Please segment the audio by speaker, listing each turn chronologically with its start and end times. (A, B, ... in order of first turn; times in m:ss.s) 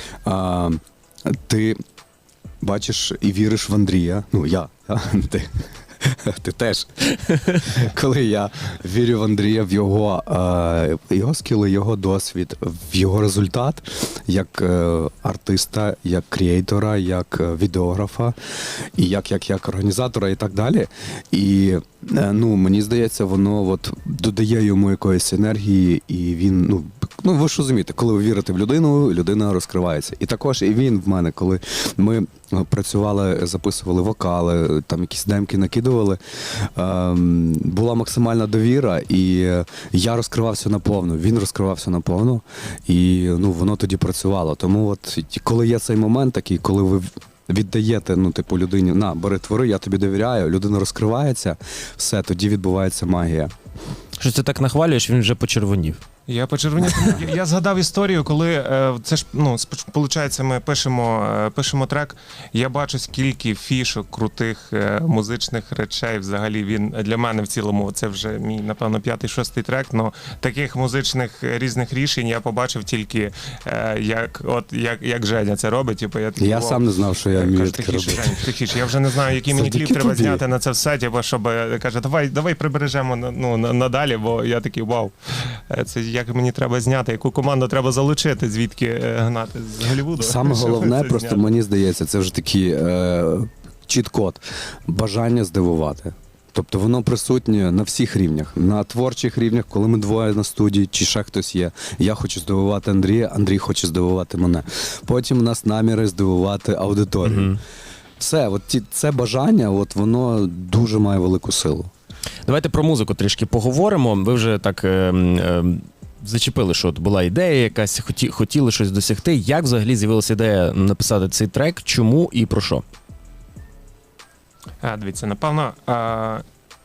0:00.2-0:01.8 A
0:02.6-0:05.5 A
0:06.0-0:18.4 A
0:19.0-0:53.5 A
0:54.2-0:56.0 B
0:56.3-1:31.6 C
1:16.4-1:18.4 A
1:19.5-1:20.4 A
1:30.2-1:47.5 A
1:47.2-1:47.6 B
1:48.2-1:51.9 A
1:52.4-2:02.8 B
2:04.8-2:06.4 C